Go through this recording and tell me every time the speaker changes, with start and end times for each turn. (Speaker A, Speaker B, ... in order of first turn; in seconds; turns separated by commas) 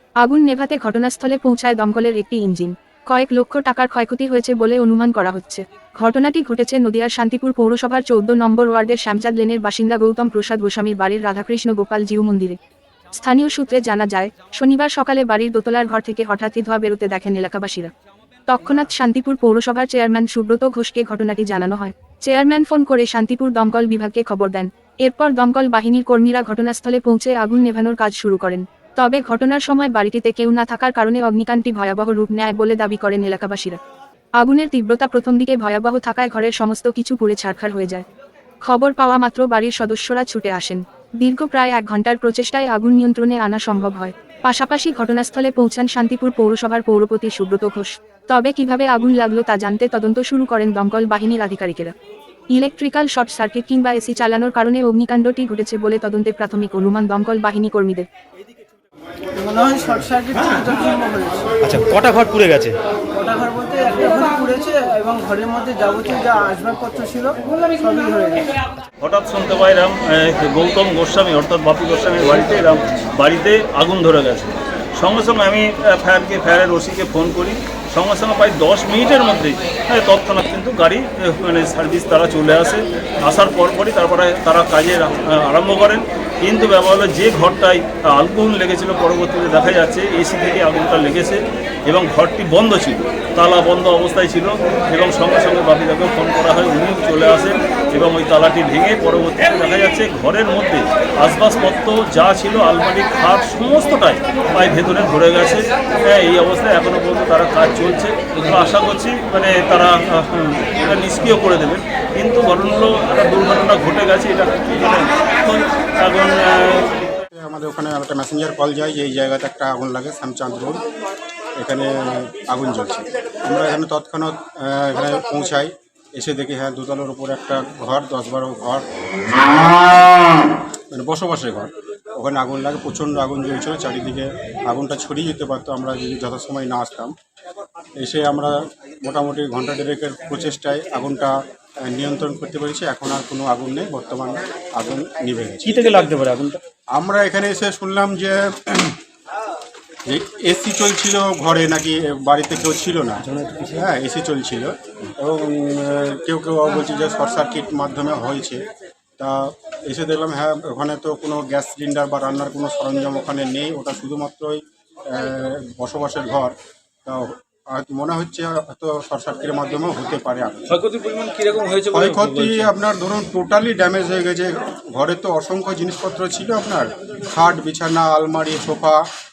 Speaker A: 0.2-12.6, Speaker A: 13.2-17.9, Speaker A: 18.5-33.8, Speaker A: 34.4-38.0, Speaker A: 38.7-51.9, Speaker A: 52.5-58.1, Speaker B: 59.3-61.6, Speaker C: 61.6-62.8, Speaker B: 63.1-68.6, Speaker D: 69.0-116.9, Speaker E: 117.3-120.8, Speaker E: 121.5-130.4, Speaker E: 130.9-137.1, Speaker E: 138.0-145.8, Speaker C: 145.7-146.6, Speaker E: 146.9-149.0, Speaker E: 150.1-158.6, Speaker C: 153.3-153.8, Speaker E: 159.2-166.6, Speaker E: 167.1-170.8, Speaker D: 170.7-172.7, Speaker E: 171.9-179.0